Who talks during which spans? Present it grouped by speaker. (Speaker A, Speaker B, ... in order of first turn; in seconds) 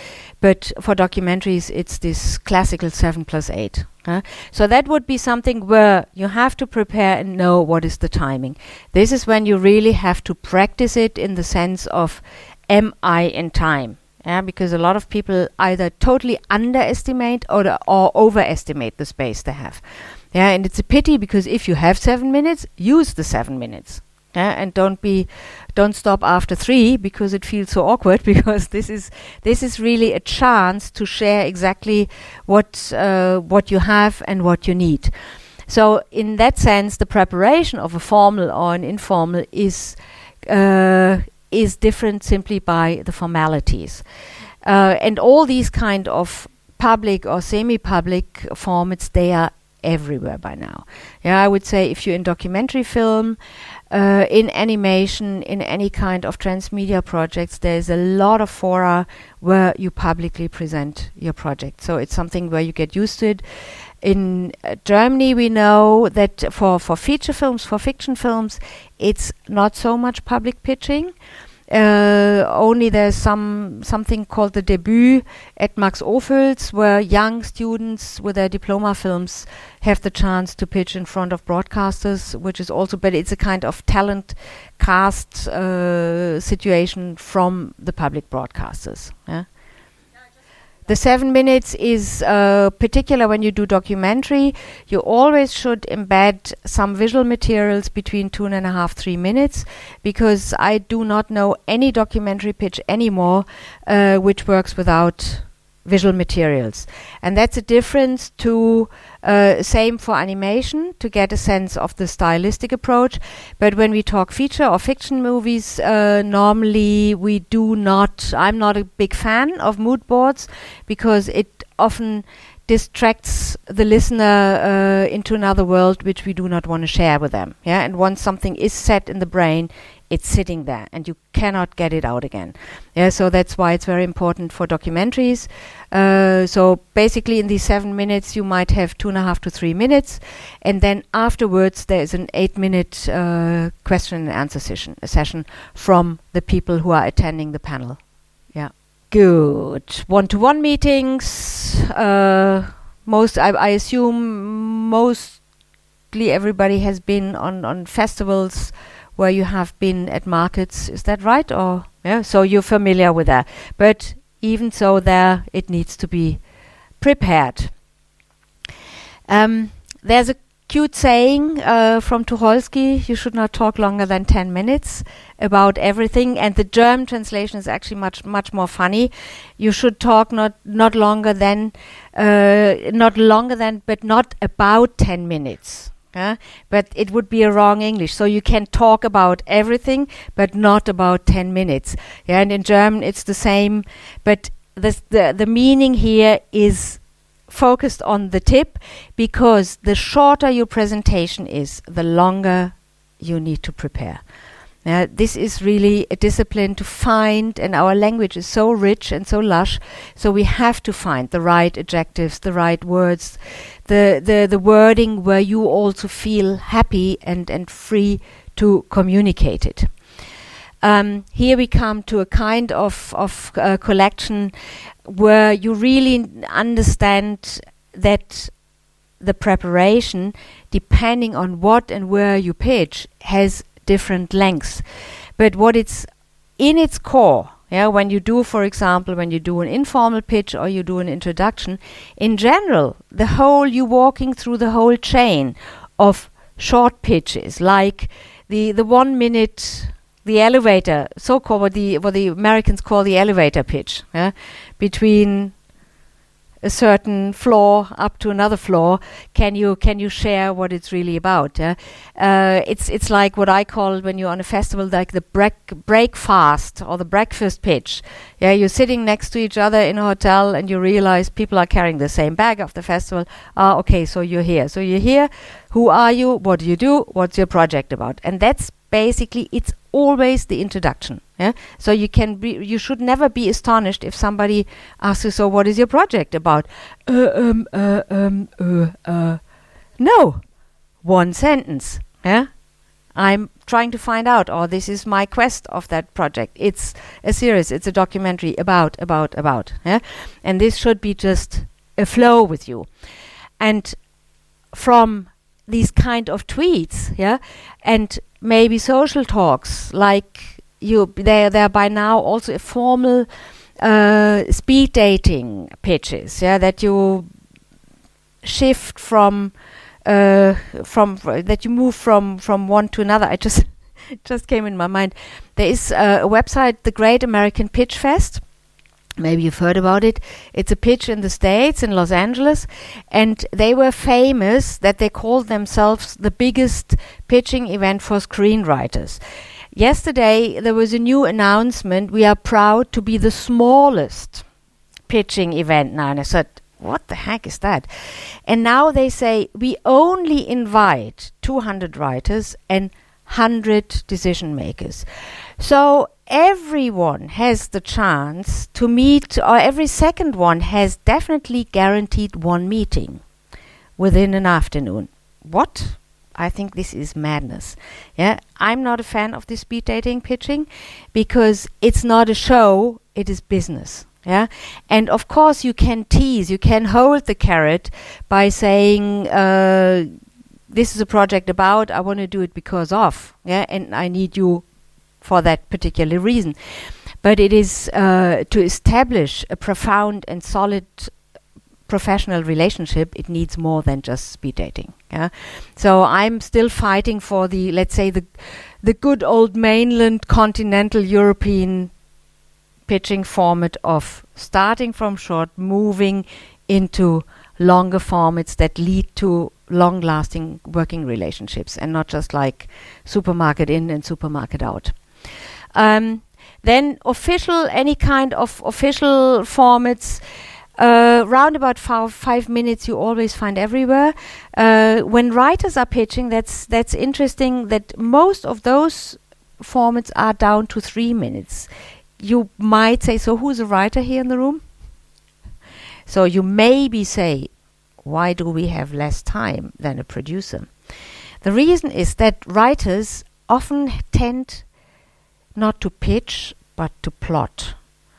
Speaker A: 0.4-35.1, 35.7-44.0, 44.6-53.4, 53.9-63.4, 64.0-71.1, 71.7-89.5, 90.9-148.0, 148.5-155.4, 156.1-166.4, 167.0-167.7, 169.3-204.2, 204.8-219.9, 220.8-224.5, 225.0-228.5, 229.2-234.8, 235.4-236.1, 236.6-255.5, 256.6-289.4, 290.0-290.4, 291.0-292.5, 293.1-302.9, 303.6-304.0, 304.7-313.3, 313.8-317.2, 318.4-319.5, 320.1-323.7, 324.2-328.4, 329.2-339.2, 339.7-344.4, 345.1-347.9, 348.5-355.1, 355.6-363.2, 364.0-380.1, 380.7-384.6, 385.2-386.5, 387.2-391.1, 391.9-401.9, 402.9-415.0, 415.7-420.2, 420.8-434.6, 436.1-437.5, 438.0-440.7, 441.4-444.6, 445.6-447.8